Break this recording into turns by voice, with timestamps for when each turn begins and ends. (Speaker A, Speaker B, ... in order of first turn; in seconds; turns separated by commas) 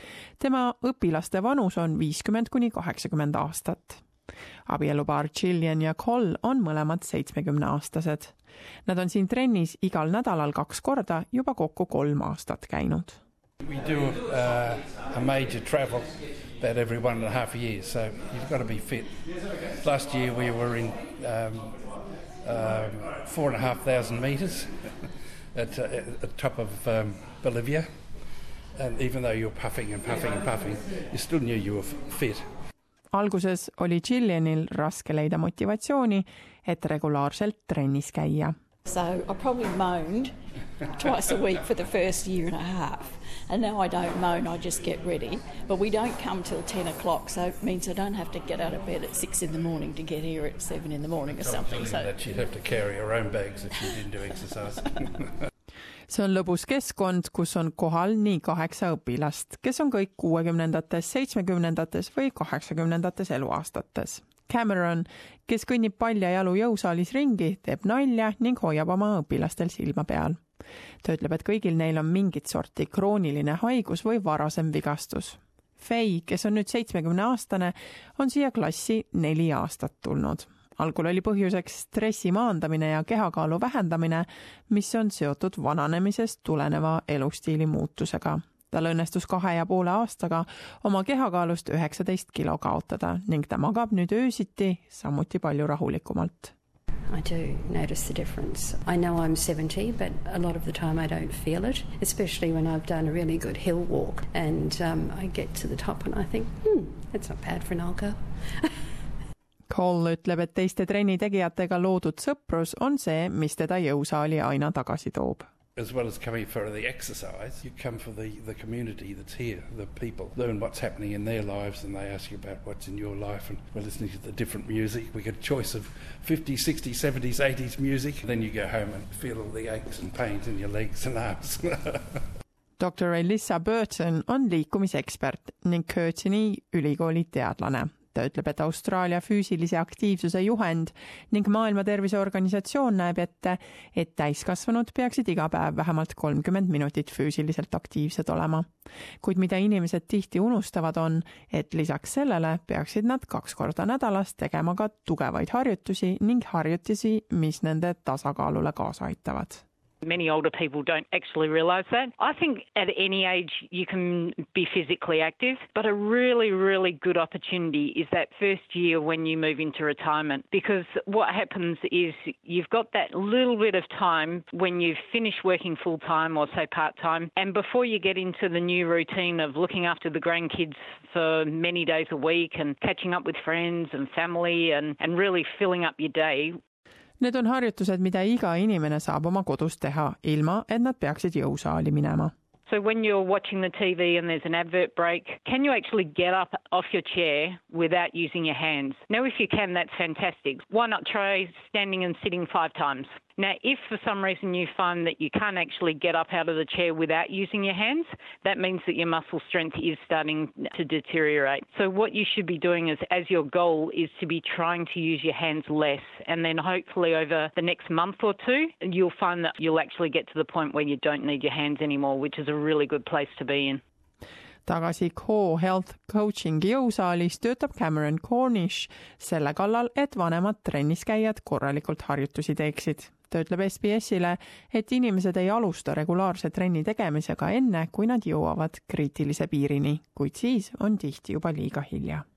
Speaker A: 0.4-4.0, Speaker A: 4.7-8.3, Speaker A: 8.8-13.2, Speaker B: 13.7-19.2, Speaker B: 19.8-21.9, Speaker B: 22.4-24.9, Speaker B: 25.5-27.9, Speaker B: 28.8-32.4, Speaker A: 33.1-38.5, Speaker C: 38.9-40.3, Speaker C: 40.9-52.5, Speaker B: 51.3-54.9, Speaker A: 56.1-70.4, Speaker A: 71.0-96.5, Speaker D: 97.1-108.2, Speaker A: 109.7-115.5, Speaker B: 115.8-131.9, Speaker A: 132.8-148.7, Speaker A: 149.2-159.6, Speaker E: 160.0-186.6, Speaker A: 187.2-192.3, Speaker E: 192.7-223.8, Speaker A: 224.7-242.2